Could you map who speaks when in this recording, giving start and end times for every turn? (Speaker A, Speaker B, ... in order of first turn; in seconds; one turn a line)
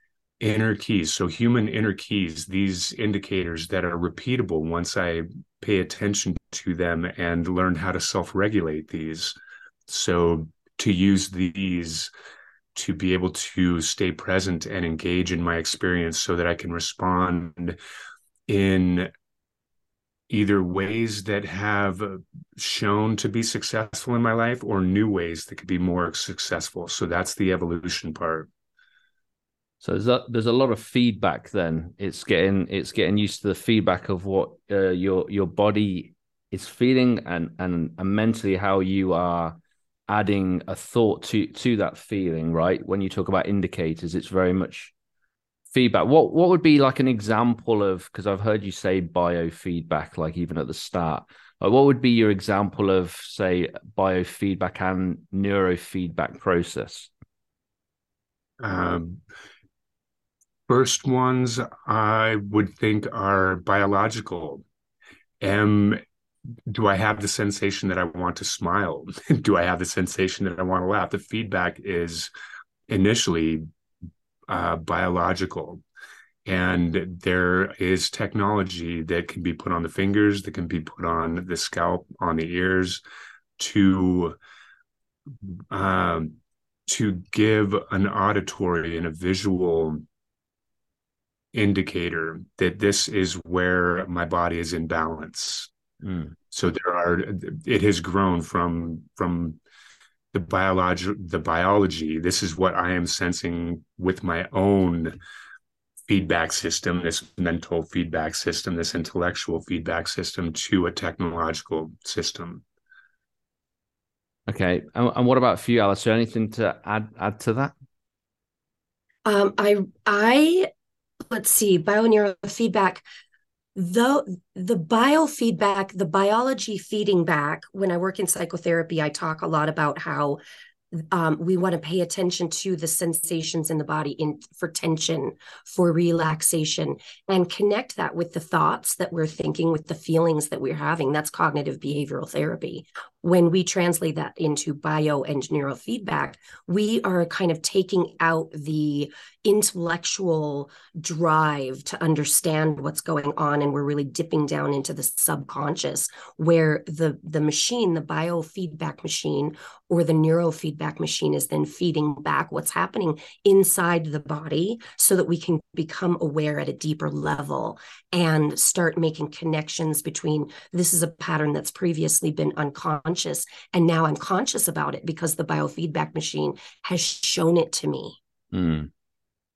Speaker A: 0.4-9.3
Speaker A: 9.9-12.1
Speaker A: 12.7-17.8
Speaker A: 18.5-19.1
Speaker A: 20.3-28.5
Speaker B: 29.8-39.6
Speaker B: 40.1-44.9
Speaker B: 45.7-57.1
Speaker A: 58.6-59.2
Speaker A: 60.7-64.6
Speaker A: 65.4-66.0
Speaker A: 66.7-72.3
Speaker A: 72.9-73.6
Speaker A: 74.5-75.8
Speaker A: 76.4-83.0
Speaker A: 83.6-84.3
Speaker A: 85.7-90.0
Speaker A: 91.5-95.7
Speaker B: 96.0-96.3
Speaker A: 96.5-99.6
Speaker A: 100.3-105.2
Speaker A: 106.1-112.6
Speaker B: 114.5-117.7
Speaker C: 119.2-120.7
Speaker C: 121.3-123.0
Speaker C: 123.7-130.4
Speaker C: 130.9-178.2
Speaker B: 178.5-178.9